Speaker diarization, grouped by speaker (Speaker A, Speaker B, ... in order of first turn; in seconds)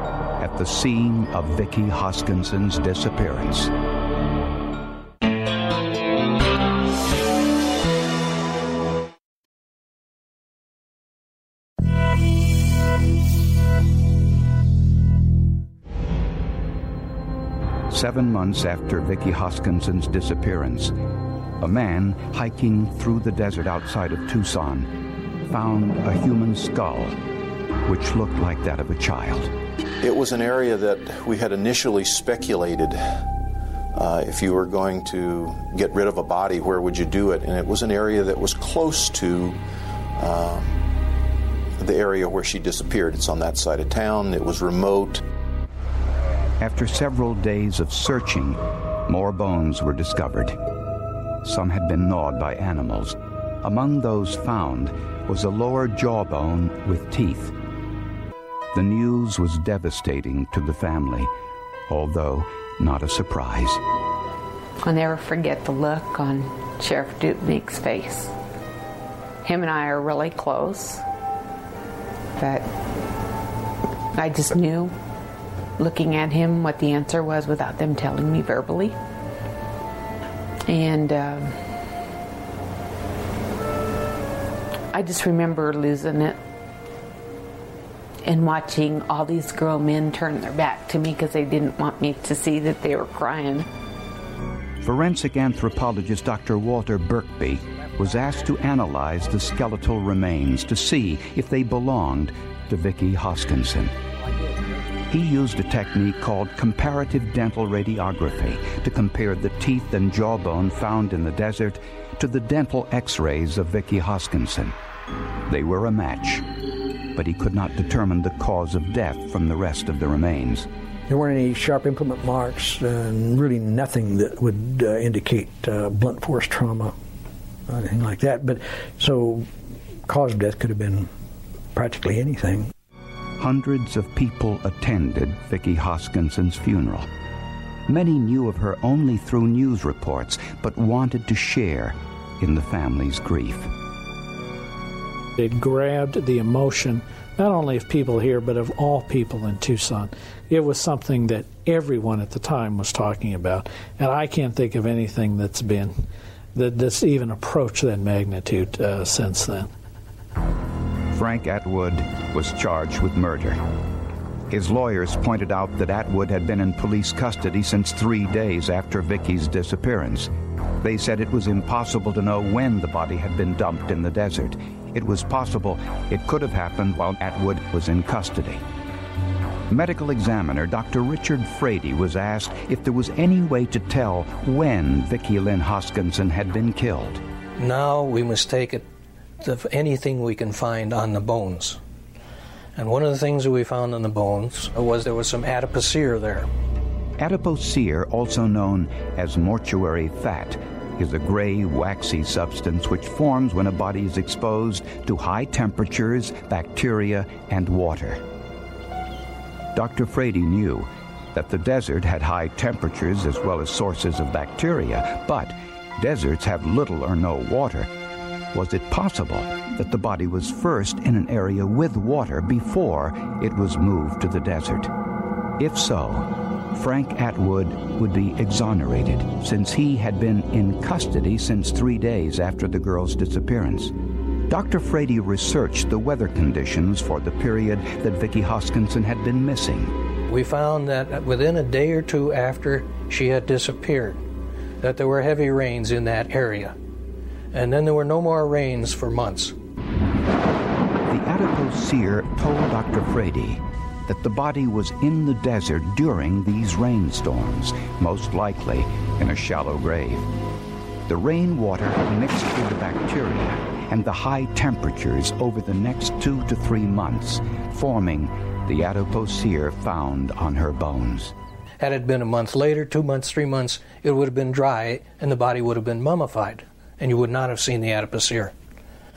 Speaker A: 0.4-3.7, 17.9-20.9, 21.6-24.9, 25.5-27.1, 27.9-29.5, 46.6-50.6, 51.4-57.5, 58.7-61.3, 61.9-63.8, 94.8-103.9, 105.1-114.7, 115.5-116.4, 117.1-120.7, 133.4-137.1, 137.9-143.7, 161.1-163.6, 164.5-170.3, 170.8-178.6, 179.7-187.2, 197.2-208.2, 209.7-217.9, 218.5-224.9, 225.6-233.9, 234.5-239.9, 251.1-260.3, 261.1-271.3
Speaker B: 30.0-33.0, 34.0-39.6, 40.2-40.8, 41.8-45.2
Speaker C: 64.8-68.3, 69.4-71.0, 72.4-72.6, 74.1-74.9, 75.8-78.9, 80.7-81.6, 84.9-86.4, 88.2-93.6
Speaker D: 121.1-126.9, 127.8-129.4, 130.1-131.0, 131.7-132.7
Speaker E: 145.4-155.9, 156.5-159.7
Speaker F: 187.6-188.8, 189.4-191.8, 192.8-196.5, 240.3-244.2, 244.8-246.7, 247.5-249.5, 271.8-278.5